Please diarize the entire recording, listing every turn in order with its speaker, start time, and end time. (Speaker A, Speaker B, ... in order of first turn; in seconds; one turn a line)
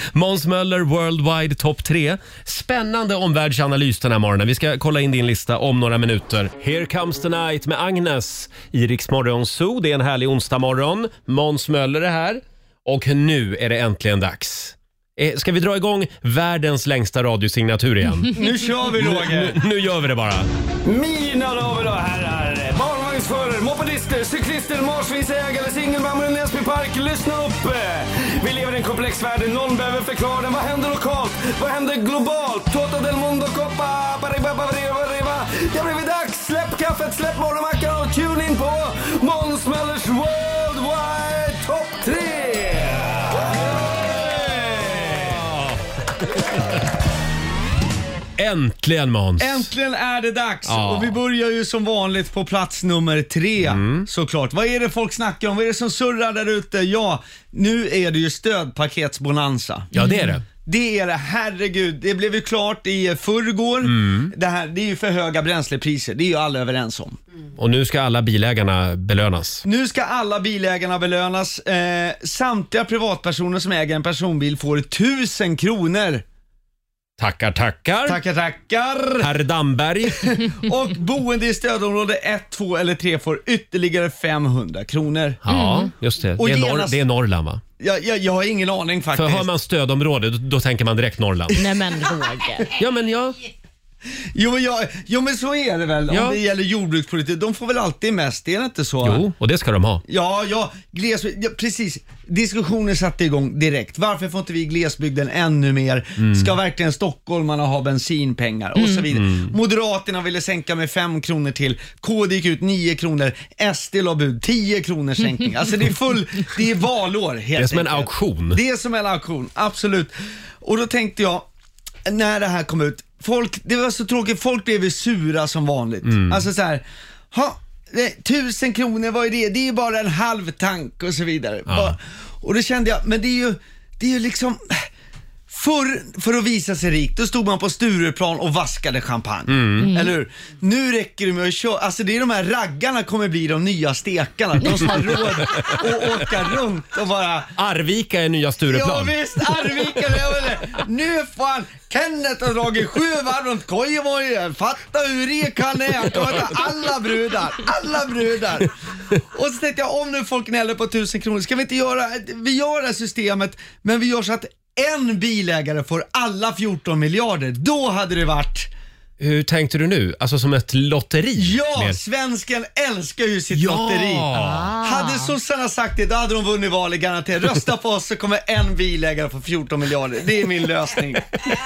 Speaker A: 0.1-18.4
Speaker B: 18.3-19.6
Speaker A: 18.9-20.5
Speaker C: 20.8-43.5
Speaker C: 44.4-45.1
Speaker A: 48.4-49.7
Speaker B: 49.4-59.9
Speaker A: 50.6-51.2
Speaker A: 53.6-54.1
Speaker A: 59.9-60.4
Speaker D: 59.9-60.4
Speaker B: 60.5-67.2
Speaker A: 63.8-64.3
Speaker A: 67.6-69.6
Speaker B: 69.6-76.2
Speaker A: 77.2-78.2
Speaker B: 78.0-79.3
Speaker A: 79.2-80.2
Speaker B: 80.2-85.4
Speaker A: 85.4-87.6
Speaker D: 85.5-85.9
Speaker B: 86.4-87.0
Speaker B: 87.8-89.5
Speaker A: 89.1-91.7
Speaker D: 91.5-92.7
Speaker A: 92.7-93.4
Speaker B: 94.3-99.2
Speaker A: 96.1-96.4
Speaker A: 99.0-100.0
Speaker B: 100.1-121.5
Speaker A: 106.2-106.5
Speaker A: 109.1-109.5
Speaker A: 117.5-118.6
Speaker B: 122.0-134.8
Speaker A: 126.0-126.4
Speaker A: 131.7-131.9
Speaker B: 135.5-147.5
Speaker A: 139.5-139.9
Speaker D: 139.8-140.1
Speaker D: 144.6-145.4
Speaker A: 144.9-146.2
Speaker A: 147.6-150.3
Speaker B: 148.7-168.7
Speaker A: 156.1-156.5
Speaker A: 169.2-172.0
Speaker B: 171.3-174.3
Speaker A: 173.5-174.7
Speaker D: 174.3-175.3
Speaker B: 174.8-181.3